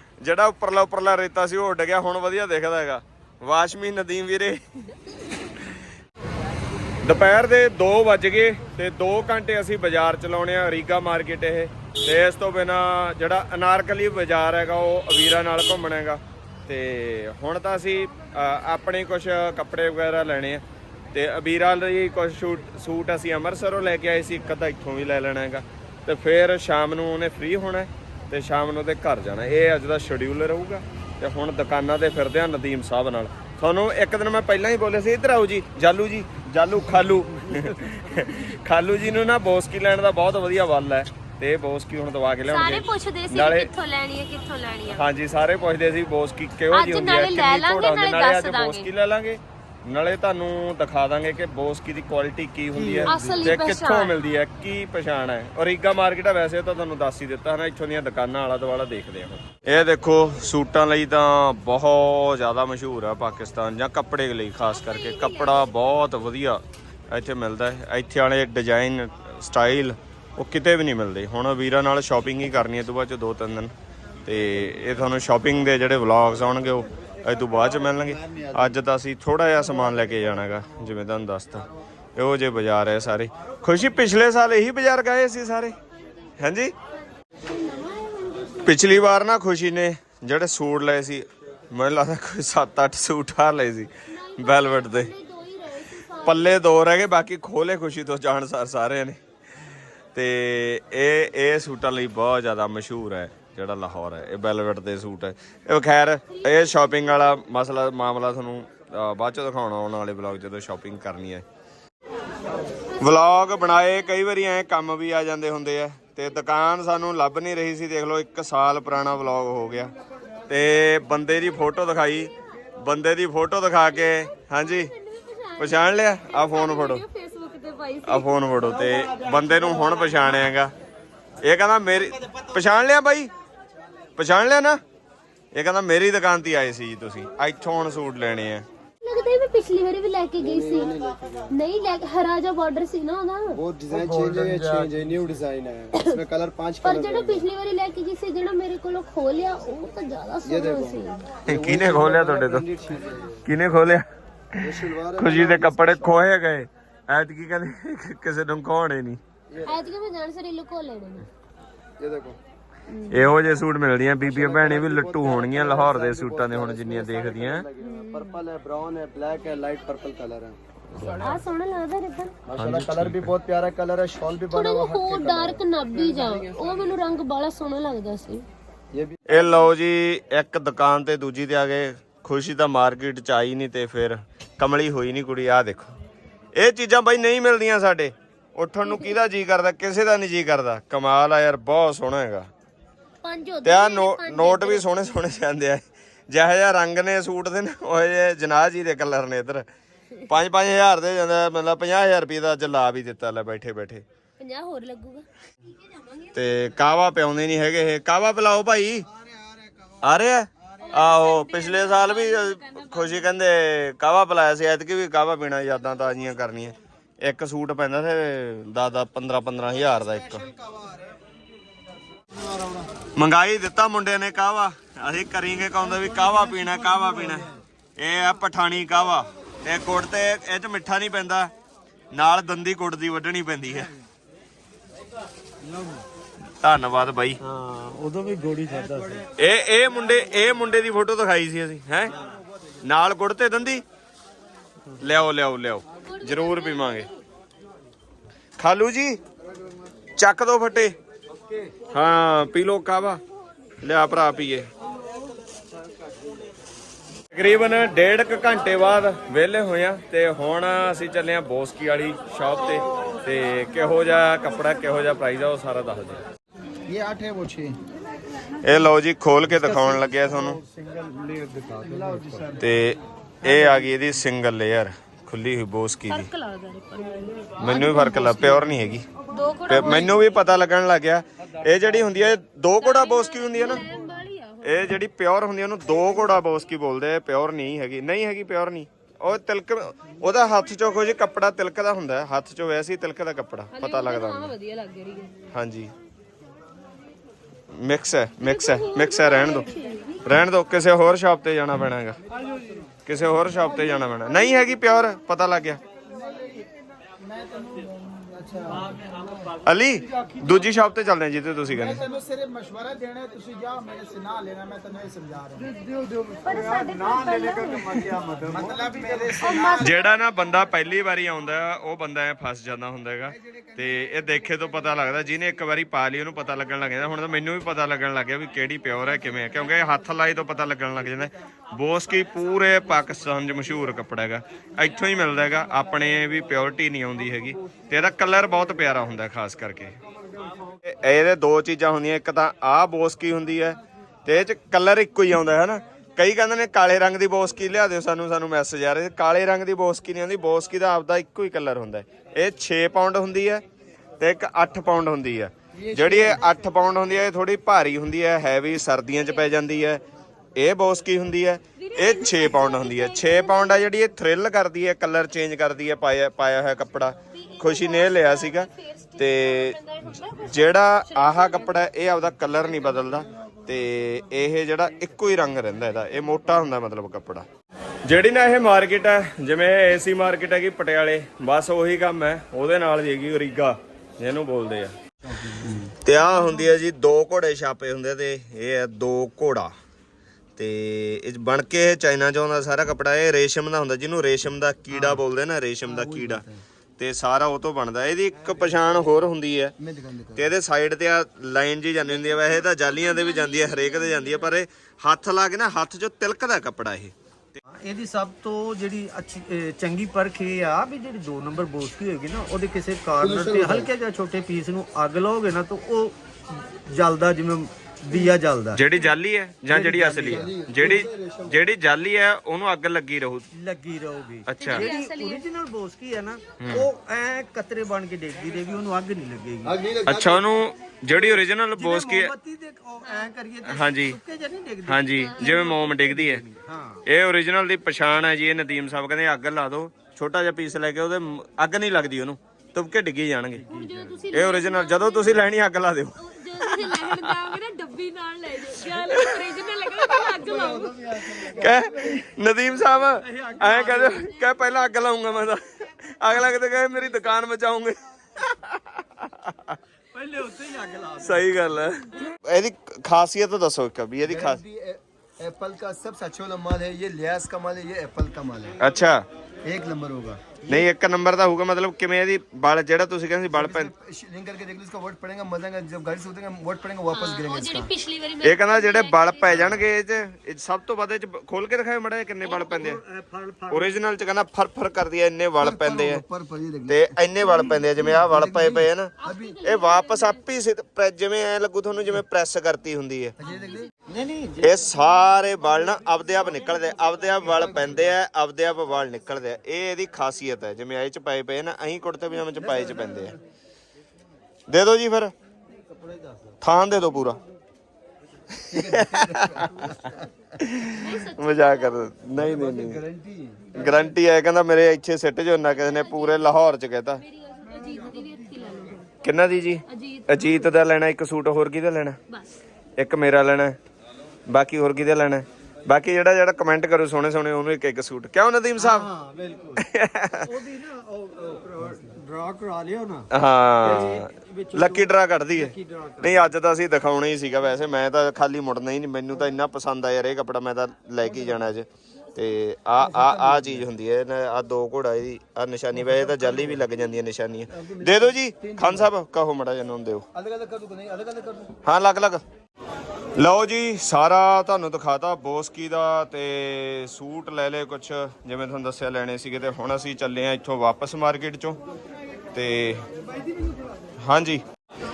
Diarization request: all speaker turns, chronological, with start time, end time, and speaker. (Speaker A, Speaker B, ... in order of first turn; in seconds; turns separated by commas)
Speaker A: 0.2-4.8, Speaker A: 7.0-43.7, Speaker B: 42.5-45.0, Speaker A: 44.9-73.7, Speaker B: 46.7-48.9, Speaker C: 52.7-53.5, Speaker B: 53.1-54.1, Speaker B: 64.7-65.9, Speaker A: 74.2-85.7, Speaker B: 86.0-86.3, Speaker A: 86.4-86.7, Speaker B: 87.2-88.8, Speaker A: 88.6-95.1, Speaker B: 94.1-96.6, Speaker A: 96.2-99.2, Speaker A: 100.1-111.4, Speaker B: 106.3-106.7, Speaker A: 113.0-119.9, Speaker A: 120.5-124.9, Speaker B: 124.0-128.4, Speaker A: 125.6-127.0, Speaker A: 128.1-130.7, Speaker C: 128.8-130.2, Speaker A: 131.4-133.3, Speaker A: 134.2-134.8, Speaker A: 135.5-138.7, Speaker B: 139.0-141.0, Speaker D: 140.4-141.5, Speaker B: 141.5-143.6, Speaker D: 143.5-147.5, Speaker C: 143.9-145.3, Speaker B: 146.8-151.2, Speaker D: 150.4-153.4, Speaker A: 151.4-152.7, Speaker A: 153.4-154.1, Speaker D: 154.6-156.2, Speaker A: 155.1-159.2, Speaker D: 159.5-159.9, Speaker B: 159.6-161.3, Speaker D: 162.0-162.4, Speaker B: 162.9-163.3, Speaker A: 163.1-167.7, Speaker D: 164.2-170.6, Speaker B: 167.8-168.3, Speaker A: 170.9-171.2, Speaker B: 171.2-172.3, Speaker D: 172.5-176.4, Speaker A: 172.6-173.3, Speaker B: 174.5-178.4, Speaker D: 178.9-179.2, Speaker A: 179.3-185.9, Speaker A: 186.6-192.5, Speaker B: 193.2-195.1, Speaker A: 193.6-199.7, Speaker A: 200.2-204.0, Speaker B: 204.4-205.2, Speaker B: 205.9-206.3, Speaker A: 206.3-209.1, Speaker A: 210.0-220.5, Speaker B: 210.8-213.3, Speaker C: 222.4-222.9, Speaker A: 223.2-231.5, Speaker A: 232.1-233.9, Speaker C: 235.6-236.0, Speaker A: 236.6-237.4, Speaker C: 237.4-239.3, Speaker A: 239.4-242.1, Speaker A: 242.8-243.8, Speaker A: 245.0-247.1, Speaker B: 246.0-247.2, Speaker A: 248.6-249.2, Speaker A: 250.2-250.9, Speaker A: 251.9-253.2, Speaker A: 253.8-254.7, Speaker A: 257.3-266.2, Speaker C: 262.7-263.2, Speaker D: 266.9-267.8, Speaker A: 268.6-270.6, Speaker C: 269.6-272.6, Speaker D: 271.8-272.6, Speaker A: 272.6-276.3, Speaker B: 276.1-278.6, Speaker A: 277.6-279.0, Speaker B: 279.3-280.3, Speaker A: 279.7-283.8, Speaker B: 282.8-285.0, Speaker A: 284.6-294.5, Speaker B: 293.7-295.4, Speaker A: 295.5-295.9, Speaker A: 297.8-299.7, Speaker B: 298.4-300.2, Speaker A: 300.2-302.2, Speaker A: 303.1-305.8, Speaker D: 306.1-306.6, Speaker D: 307.2-308.8, Speaker A: 309.6-312.0, Speaker E: 310.1-310.6, Speaker D: 311.7-315.7, Speaker E: 315.6-317.4, Speaker B: 316.4-318.1, Speaker C: 316.5-319.6, Speaker D: 318.5-319.9, Speaker B: 319.4-320.1, Speaker A: 319.8-340.0, Speaker A: 340.8-353.6, Speaker A: 354.2-360.0, Speaker D: 355.8-356.5, Speaker A: 360.6-369.8, Speaker B: 361.8-363.9, Speaker B: 367.3-371.8, Speaker A: 370.4-377.4, Speaker A: 378.1-384.9, Speaker D: 385.2-385.9, Speaker A: 386.0-389.7, Speaker A: 390.6-396.4, Speaker D: 395.9-396.6, Speaker A: 397.0-399.7, Speaker C: 398.5-398.9, Speaker D: 399.8-400.5, Speaker A: 400.3-407.6, Speaker B: 402.9-404.5, Speaker C: 407.6-418.8, Speaker D: 413.2-413.9, Speaker A: 418.7-423.5, Speaker D: 419.7-421.6, Speaker C: 419.7-420.5, Speaker C: 423.5-429.8, Speaker A: 424.5-424.9, Speaker B: 424.6-425.4, Speaker A: 426.6-426.9, Speaker D: 429.6-430.5, Speaker A: 430.0-432.3, Speaker C: 431.1-437.0, Speaker B: 433.0-433.3, Speaker A: 433.6-434.2, Speaker A: 434.9-436.4, Speaker B: 435.4-435.8, Speaker A: 437.1-443.6, Speaker C: 443.6-444.2, Speaker B: 443.6-445.4, Speaker A: 444.3-447.5, Speaker B: 446.2-451.4, Speaker A: 449.1-449.4, Speaker C: 450.4-451.7, Speaker D: 450.4-452.2, Speaker A: 451.4-459.8, Speaker C: 453.2-454.4, Speaker C: 460.1-461.8, Speaker A: 461.2-464.6, Speaker D: 464.2-468.8, Speaker A: 468.8-469.2, Speaker D: 469.6-470.6, Speaker A: 470.7-473.9, Speaker D: 473.5-477.9, Speaker B: 477.1-479.8, Speaker A: 478.4-483.0, Speaker C: 482.4-484.0, Speaker A: 483.7-486.2, Speaker D: 485.6-489.6, Speaker A: 486.9-493.3, Speaker B: 489.2-490.4, Speaker D: 493.4-493.9, Speaker B: 493.4-493.9, Speaker C: 494.1-494.9, Speaker A: 494.6-503.4, Speaker C: 496.1-498.1, Speaker D: 502.5-503.4, Speaker A: 504.7-505.3, Speaker C: 505.9-506.5, Speaker A: 506.6-507.4, Speaker A: 508.7-513.0, Speaker D: 508.7-510.4, Speaker B: 511.0-512.0, Speaker D: 512.4-514.1, Speaker A: 513.8-517.2, Speaker B: 515.6-516.6, Speaker B: 517.2-519.1, Speaker A: 519.2-522.2, Speaker B: 519.9-520.7, Speaker B: 522.3-522.6, Speaker A: 523.0-523.8, Speaker A: 524.5-529.1, Speaker C: 528.8-529.8, Speaker A: 529.8-530.5, Speaker C: 530.4-533.3, Speaker A: 533.3-550.2, Speaker C: 533.8-536.5, Speaker C: 543.2-543.6, Speaker D: 547.7-549.1, Speaker D: 550.3-551.7, Speaker A: 551.8-552.4, Speaker A: 553.4-561.8, Speaker A: 562.5-563.1, Speaker A: 564.2-564.6